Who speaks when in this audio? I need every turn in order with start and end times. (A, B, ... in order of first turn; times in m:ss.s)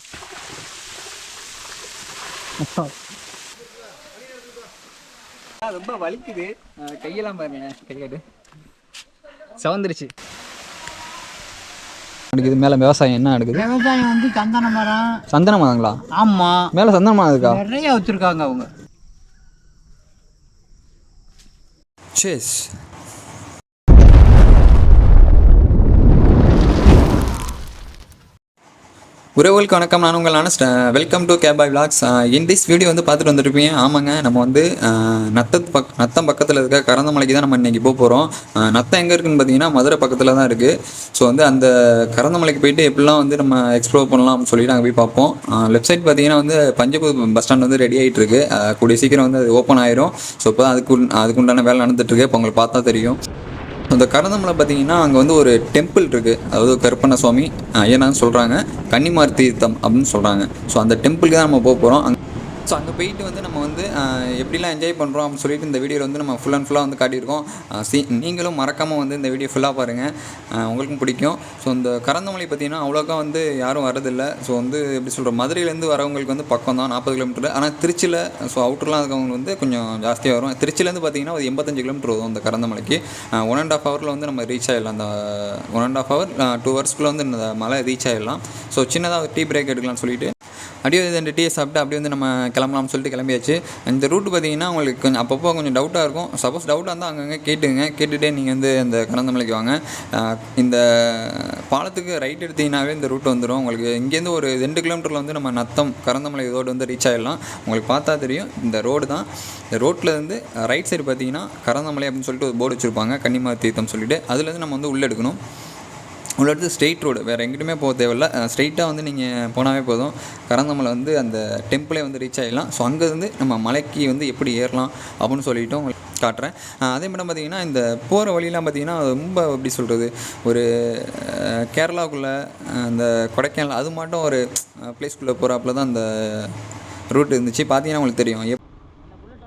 0:02.6-0:02.9 A
0:05.6-0:08.2 A
0:09.6-0:10.1 A
0:12.3-0:13.7 A
0:13.6-0:15.0 B
0:15.3-0:16.0 A
0:16.2-0:16.6 B
0:16.7-0:17.6 A
0:17.4-0:18.7 B
0:22.2-0:22.7 A
0:29.4-0:53.2 A
0:53.9-1:02.2 A
1:02.7-1:30.3 A
1:30.8-1:49.3 A
1:49.8-1:55.4 A
1:56.4-2:16.5 A
2:17.1-2:18.6 A